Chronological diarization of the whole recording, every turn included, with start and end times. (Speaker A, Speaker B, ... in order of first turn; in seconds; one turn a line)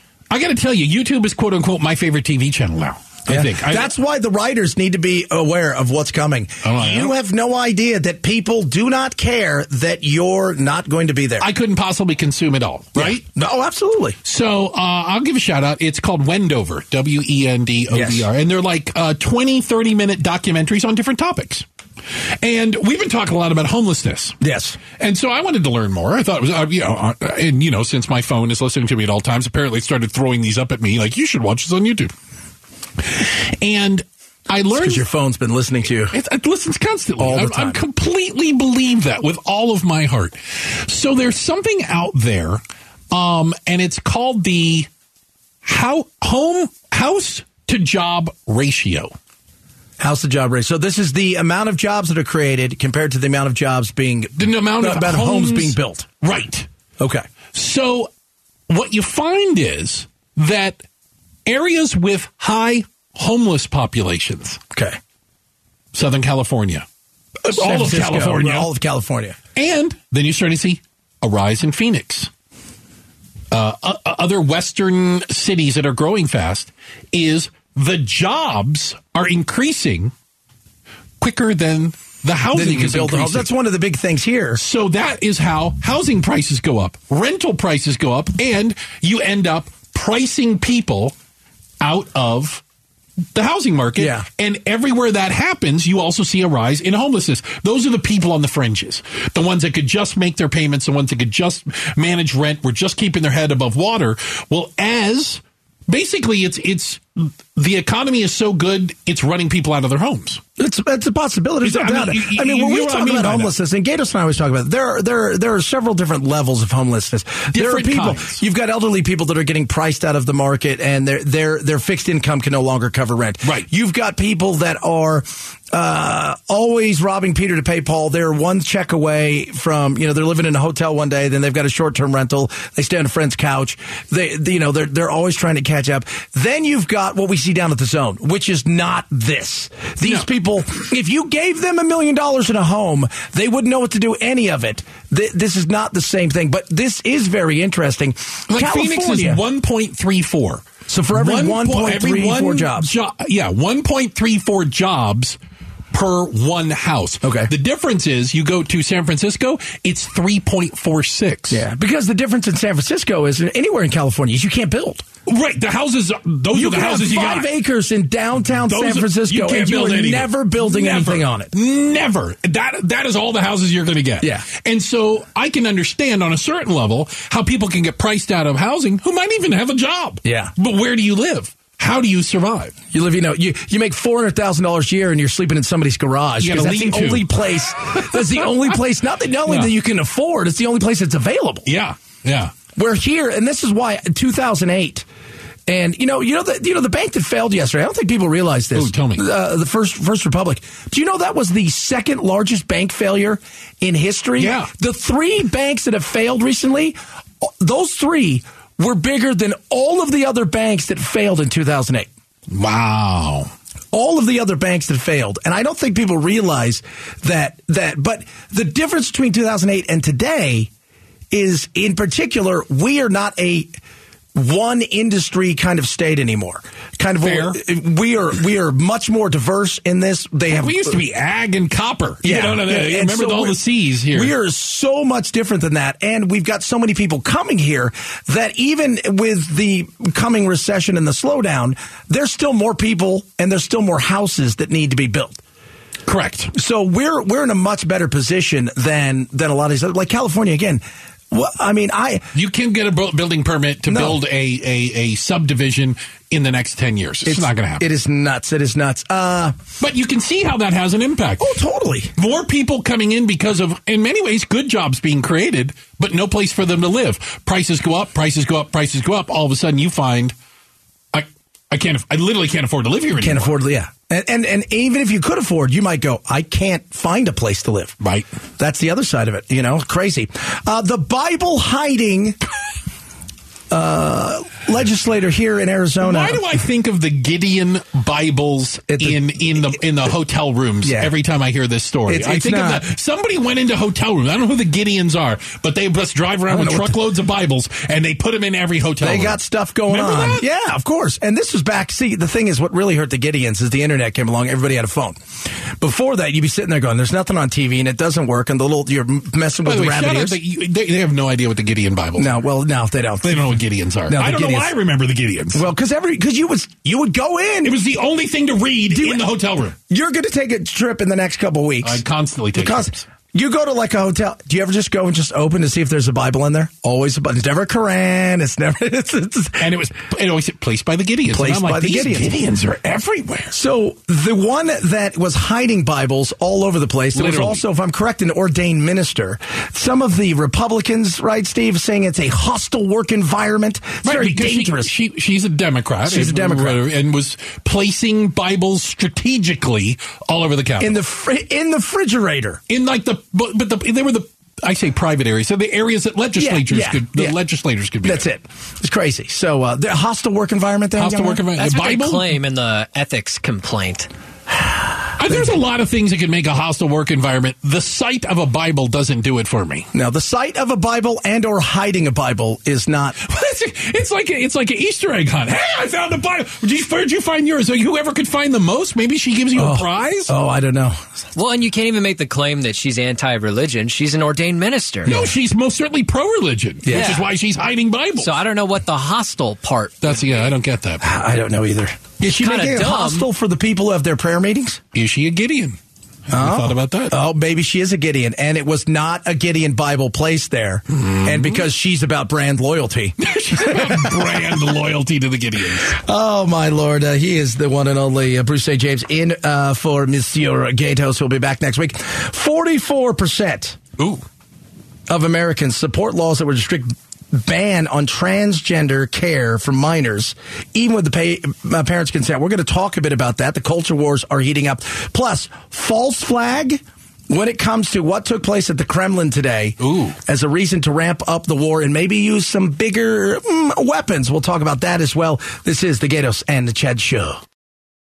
Speaker A: 0.3-3.9
Speaker B: 3.3-11.5
Speaker A: 6.6-7.1
Speaker A: 11.4-13.2
Speaker B: 12.9-14.2
Speaker A: 14.2-21.6
Speaker B: 17.9-18.3
Speaker A: 22.4-24.4
Speaker B: 24.4-24.8
Speaker A: 24.9-32.1
Speaker A: 33.0-35.0
Speaker B: 34.7-36.1
Speaker A: 36.1-44.9
Speaker B: 37.2-37.8
Speaker A: 45.6-49.1
Speaker B: 50.0-56.0
Speaker A: 54.4-56.7
Speaker B: 57.0-57.2
Speaker A: 57.5-58.1
Speaker A: 58.7-60.8
Speaker A: 61.5-64.6
Speaker B: 64.7-65.0
Speaker A: 65.9-66.8
Speaker B: 67.4-69.4
Speaker A: 67.5-68.7
Speaker A: 69.5-72.3
Speaker A: 73.5-80.1
Speaker A: 81.2-83.5
Speaker B: 82.5-84.6
Speaker A: 84.5-91.1
Speaker A: 91.8-92.6
Speaker A: 93.3-110.4
Speaker B: 94.0-94.2
Speaker B: 110.6-149.4
Speaker A: 111.6-113.5
Speaker A: 117.5-118.4
Speaker A: 148.5-155.4
Speaker B: 150.9-152.9
Speaker A: 155.9-161.6
Speaker B: 157.2-157.5
Speaker B: 161.5-165.0
Speaker A: 165.2-167.5
Speaker B: 166.5-171.5
Speaker A: 168.6-182.8
Speaker B: 174.2-174.4
Speaker B: 180.2-180.5
Speaker B: 182.9-191.7
Speaker A: 186.4-187.3
Speaker A: 187.9-188.7
Speaker A: 189.5-189.7
Speaker A: 191.7-192.5
Speaker B: 192.7-195.1
Speaker B: 195.7-212.1
Speaker A: 198.7-199.3
Speaker A: 204.4-204.7
Speaker A: 212.5-213.5
Speaker B: 213.9-220.7
Speaker B: 221.3-223.7
Speaker B: 224.3-231.0
Speaker A: 227.2-227.6
Speaker A: 230.5-234.3
Speaker B: 232.2-245.4
Speaker A: 246.1-246.5
Speaker B: 246.5-252.3
Speaker A: 252.3-257.9
Speaker B: 253.9-254.2
Speaker B: 257.2-259.6
Speaker A: 259.8-261.5
Speaker B: 261.4-262.1
Speaker A: 262.1-270.3
Speaker A: 271.1-273.5
Speaker B: 273.2-278.0
Speaker A: 278.0-278.2
Speaker B: 278.6-282.4
Speaker B: 283.7-286.4
Speaker A: 286.0-300.4
Speaker B: 288.9-289.2
Speaker B: 290.8-291.1
Speaker B: 292.1-292.8
Speaker B: 296.5-297.0
Speaker B: 299.0-305.2
Speaker B: 305.8-310.4
Speaker A: 309.6-312.3
Speaker B: 312.2-313.5
Speaker A: 313.2-315.6
Speaker B: 314.1-314.7
Speaker B: 315.5-317.8
Speaker A: 317.6-319.8
Speaker B: 318.9-322.0
Speaker A: 321.8-323.0
Speaker B: 322.5-329.7
Speaker A: 329.6-333.6
Speaker B: 331.3-332.3
Speaker B: 333.5-344.9
Speaker A: 337.1-337.6
Speaker A: 344.0-351.0
Speaker B: 346.0-346.8
Speaker B: 350.8-352.6
Speaker A: 352.7-358.3
Speaker B: 356.4-357.4
Speaker B: 358.0-361.4
Speaker A: 361.0-362.3
Speaker C: 361.6-364.1
Speaker A: 365.1-369.9
Speaker B: 369.9-373.2
Speaker A: 373.2-380.3
Speaker B: 379.5-381.0
Speaker C: 381.3-385.1
Speaker B: 385.0-385.3
Speaker A: 385.1-388.3
Speaker B: 386.8-387.2
Speaker C: 386.9-387.2
Speaker C: 388.2-390.2
Speaker A: 390.0-391.1
Speaker B: 391.0-394.8
Speaker C: 392.2-393.3
Speaker A: 394.9-395.8
Speaker A: 396.3-397.2
Speaker B: 396.3-404.6
Speaker A: 400.9-401.6
Speaker A: 403.2-406.0
Speaker B: 405.9-413.8
Speaker A: 414.0-414.2
Speaker B: 415.1-437.4
Speaker A: 429.8-430.2